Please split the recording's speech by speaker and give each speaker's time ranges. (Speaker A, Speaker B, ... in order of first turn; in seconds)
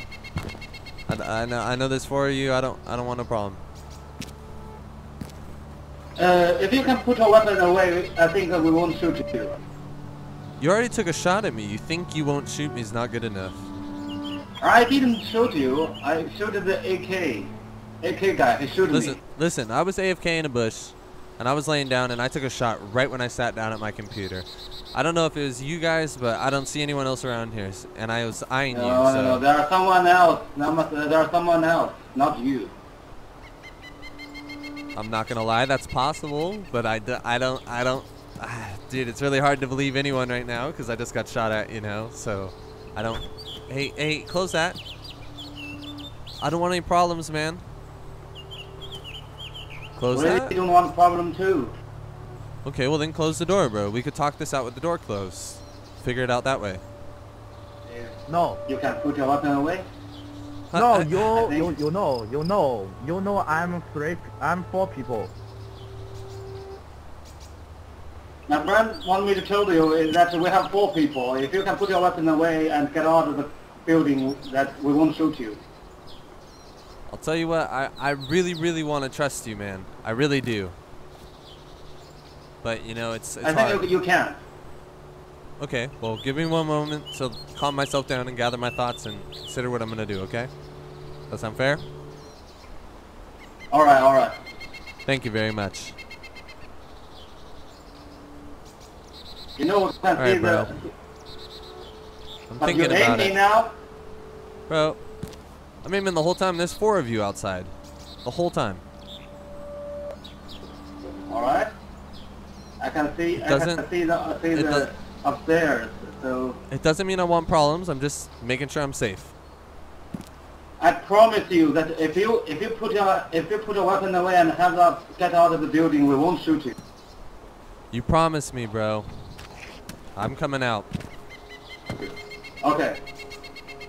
Speaker A: 1.1-3.6, 10.6-13.7, 18.9-29.4, 35.0-44.8, 46.4-47.6, 50.0-50.5, 52.6-56.8, 60.7-61.3, 77.1-80.8, 82.6-83.9, 85.6-90.5, 91.3-91.8, 95.1-96.0, 100.2-100.7, 102.5-103.3, 104.7-105.0, 105.8-107.7, 108.2-108.8, 113.4-113.8, 114.5-114.9, 116.7-119.3, 127.9-129.3, 130.2-130.9
Speaker B: 6.2-9.6, 14.6-19.2, 28.7-32.7, 50.1-51.7, 57.9-59.9, 61.3-61.8, 68.5-75.6, 83.4-84.4, 93.7-94.3, 99.6-100.9, 102.6-103.7, 111.3-111.7, 112.8-116.6, 120.8-126.8, 132.0-133.0
Speaker C: 58.3-58.6, 60.7-65.3